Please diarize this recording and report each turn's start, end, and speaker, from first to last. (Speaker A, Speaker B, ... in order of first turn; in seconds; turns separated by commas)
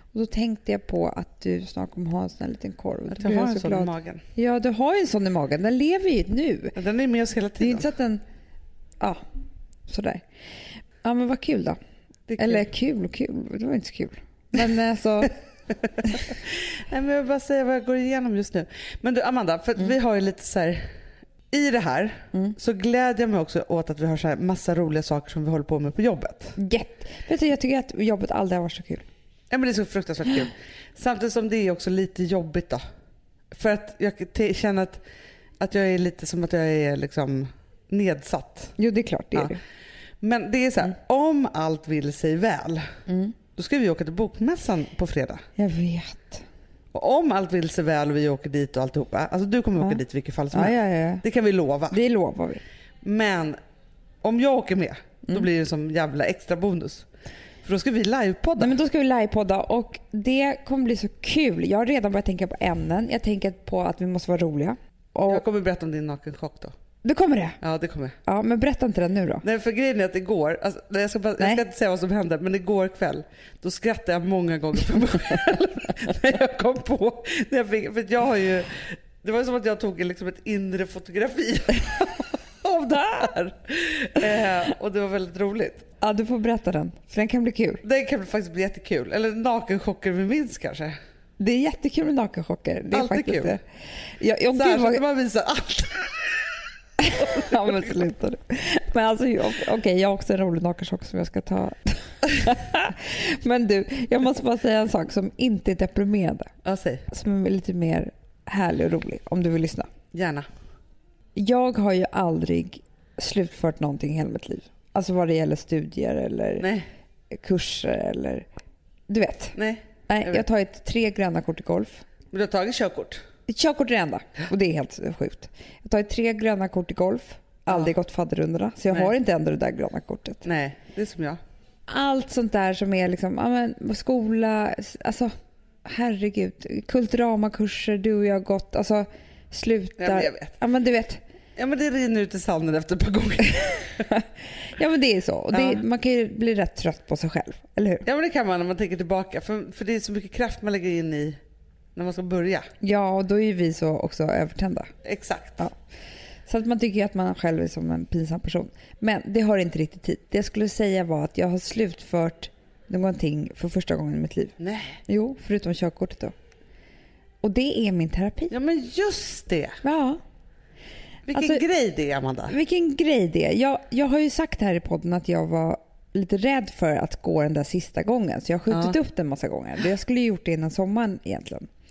Speaker A: 0.1-6.8, Speaker B: 3.1-4.2, Speaker B: 6.7-7.9, Speaker A: 7.6-8.2, Speaker A: 9.9-10.2, Speaker A: 11.0-11.8, Speaker B: 12.3-12.7, Speaker A: 12.4-15.3, Speaker B: 16.0-20.9, Speaker B: 21.5-26.6, Speaker A: 26.6-29.1, Speaker B: 29.5-32.8, Speaker B: 33.5-35.0, Speaker B: 35.6-38.7, Speaker A: 38.8-39.6, Speaker B: 40.2-42.9, Speaker A: 43.1-43.4, Speaker B: 43.5-45.4, Speaker A: 45.6-46.4, Speaker B: 46.9-52.0, Speaker A: 50.5-51.2, Speaker A: 51.9-52.6, Speaker B: 53.0-53.6, Speaker B: 54.2-57.1, Speaker B: 57.6-58.8, Speaker A: 58.6-65.4, Speaker B: 65.3-66.7, Speaker A: 67.0-67.6, Speaker B: 67.6-68.2, Speaker A: 68.2-69.4, Speaker B: 69.4-85.9, Speaker A: 86.0-87.8, Speaker B: 87.8-91.0, Speaker A: 91.4-93.6, Speaker B: 92.9-93.6, Speaker A: 94.2-95.0, Speaker B: 94.5-96.4, Speaker A: 97.0-106.5, Speaker B: 97.4-97.7, Speaker B: 106.6-107.0, Speaker A: 107.1-109.9, Speaker B: 110.1-110.5, Speaker A: 111.3-116.7, Speaker B: 116.6-116.9, Speaker A: 117.3-118.5, Speaker A: 119.1-119.5, Speaker B: 119.5-120.4, Speaker A: 120.1-122.0, Speaker B: 122.3-123.2, Speaker A: 123.5-130.4, Speaker B: 127.7-127.9, Speaker B: 130.4-131.4, Speaker A: 131.9-135.3, Speaker A: 135.8-141.2, Speaker B: 140.0-140.5, Speaker B: 141.6-144.0, Speaker A: 144.0-148.0, Speaker B: 145.5-145.8, Speaker B: 148.0-151.4, Speaker B: 151.9-152.7, Speaker A: 152.8-154.9, Speaker B: 155.0-155.6, Speaker A: 156.5-164.6, Speaker B: 164.6-165.0, Speaker A: 165.1-166.3, Speaker A: 167.4-168.5, Speaker B: 168.5-169.8, Speaker A: 169.8-170.2, Speaker B: 171.3-172.5, Speaker A: 171.3-171.6, Speaker A: 172.5-181.7, Speaker B: 178.7-179.0